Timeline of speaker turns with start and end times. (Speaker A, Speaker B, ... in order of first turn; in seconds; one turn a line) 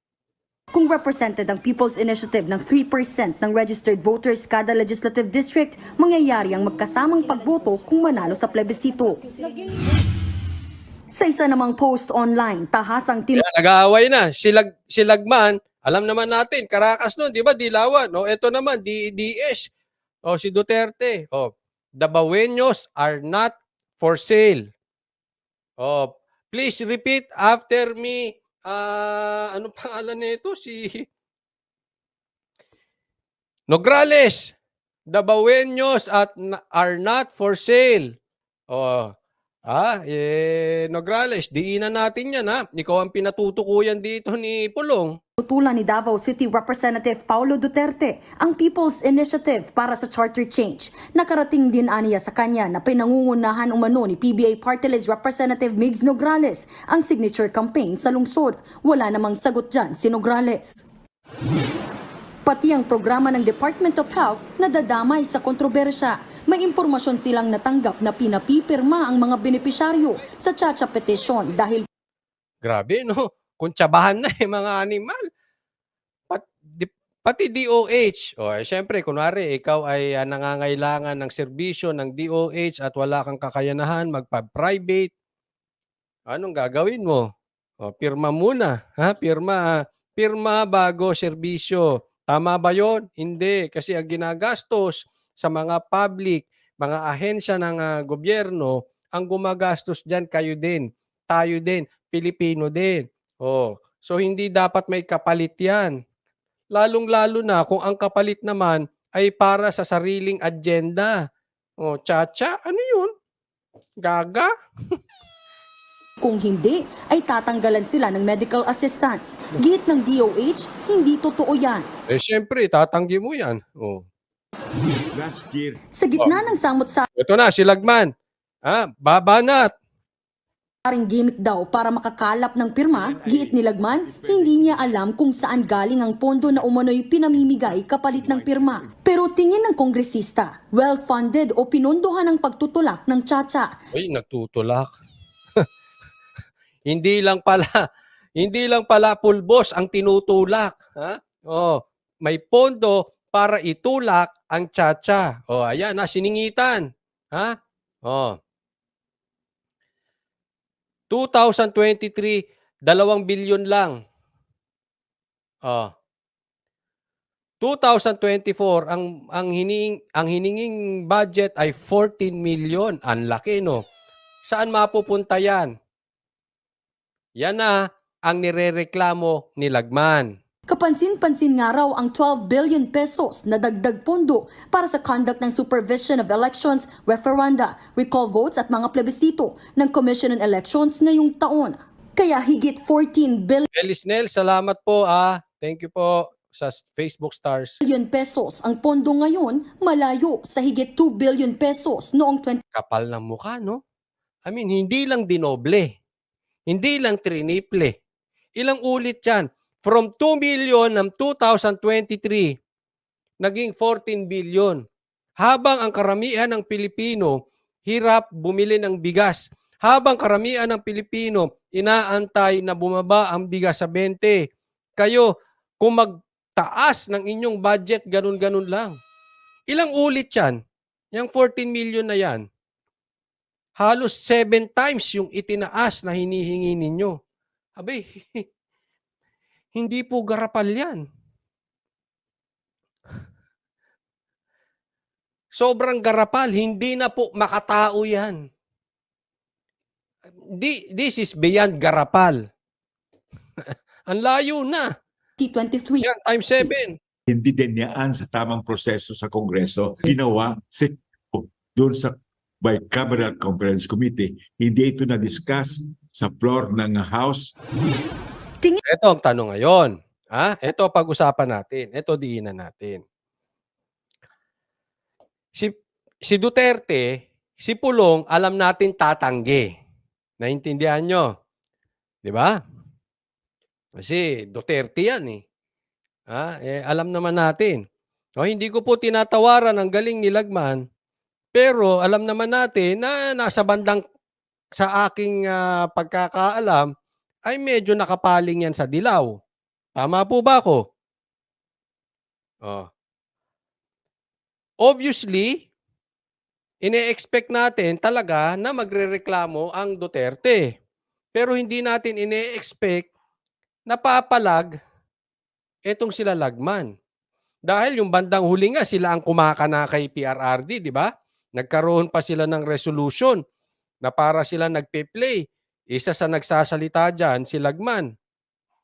Speaker A: 0.7-9.2
Speaker A: 11.1-13.4
Speaker B: 13.3-19.7
Speaker B: 20.3-24.6
Speaker B: 25.8-31.0
Speaker B: 33.7-34.5
Speaker B: 35.1-38.1
Speaker B: 38.7-39.1
Speaker B: 39.7-45.1
Speaker A: 45.4-60.8
Speaker A: 62.4-71.9
Speaker B: 72.6-75.2
Speaker B: 76.3-85.1
Speaker B: 86.3-87.2
Speaker B: 87.8-105.9
Speaker B: 106.7-111.1
Speaker B: 111.8-113.1
Speaker B: 114.0-115.0
Speaker A: 116.2-121.9
Speaker B: 122.1-124.0
Speaker C: 125.1-125.8
Speaker A: 125.9-127.1
Speaker B: 127.2-128.1
Speaker B: 128.7-129.7
Speaker A: 130.8-143.7
Speaker C: 132.9-134.8
Speaker C: 138.2-138.8
Speaker B: 143.9-144.9
Speaker B: 146.9-147.8
Speaker B: 148.4-157.5
Speaker B: 158.1-158.4
Speaker B: 161.1-163.9
Speaker B: 167.6-173.8
Speaker B: 174.5-175.7
Speaker B: 177.4-180.3
Speaker A: 180.7-193.7
Speaker B: 193.7-197.8
Speaker A: 197.8-202.6
Speaker B: 202.7-203.8
Speaker B: 204.4-205.9
Speaker B: 206.7-208.0
Speaker B: 208.6-212.5
Speaker B: 213.4-214.8
Speaker B: 215.4-224.4
Speaker B: 225.0-225.3
Speaker B: 225.8-228.9
Speaker B: 229.7-230.6
Speaker B: 231.1-232.4
Speaker B: 233.8-237.1
Speaker B: 237.8-238.4
Speaker B: 239.8-241.0
Speaker B: 245.6-248.4
Speaker B: 250.5-252.4
Speaker B: 253.6-254.9
Speaker A: 255.4-256.1
Speaker B: 256.0-257.0
Speaker C: 257.3-267.5
Speaker B: 268.9-273.0
Speaker B: 276.3-277.1
Speaker B: 277.6-279.7
Speaker B: 280.4-281.3
Speaker B: 282.2-282.5
Speaker B: 284.0-285.4
Speaker B: 286.3-287.8
Speaker B: 288.4-290.8
Speaker B: 291.5-294.0
Speaker B: 294.8-296.9
Speaker B: 297.5-299.3
Speaker B: 300.0-300.8
Speaker B: 304.8-305.6
Speaker B: 306.8-310.7
Speaker B: 311.3-313.1
Speaker B: 313.9-314.8
Speaker B: 315.9-316.9
Speaker B: 317.7-323.4
Speaker B: 324.0-328.1